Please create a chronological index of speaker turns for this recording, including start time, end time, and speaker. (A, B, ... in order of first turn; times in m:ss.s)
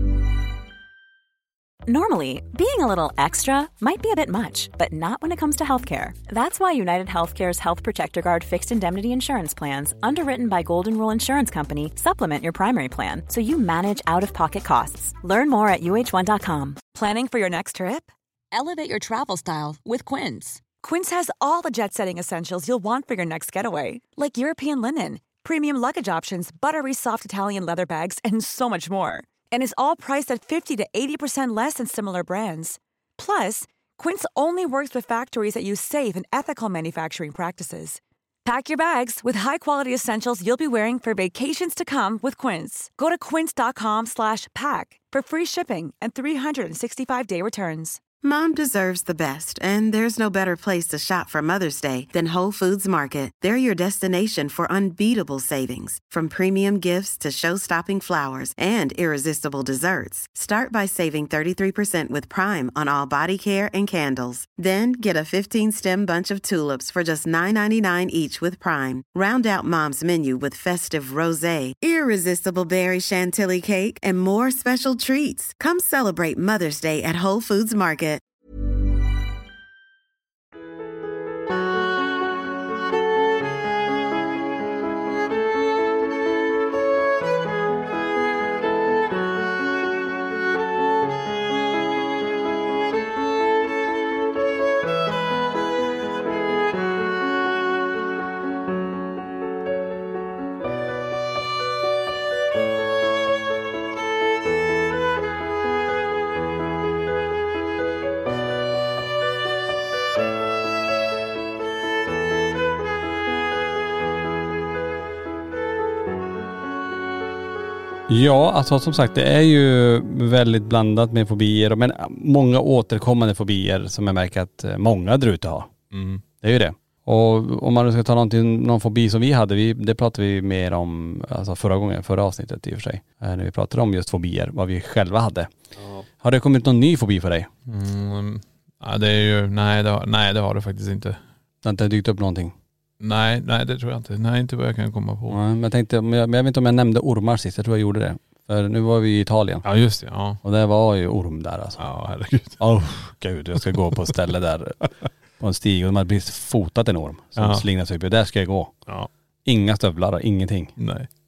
0:01.9-0:16.8 A
0:16.9-0:48.0 B
0:48.2-1:18.2 C
1:58.1-2:05.7 D
2:05.9-2:06.2 E
2:06.4-2:15.5 D
2:16.2-2:17.5 D
2:17.7-2:21.2 E
2:21.6-2:22.5 D
2:23.0-2:25.4 E
2:25.3-2:29.6 D
2:29.6-2:30.4 E
2:30.4-2:31.8 D
2:31.8-2:32.6 E
2:32.6-2:38.7 D
2:37.4-2:37.6 E
2:39.5-2:40.8 D
2:40.8-2:41.1 E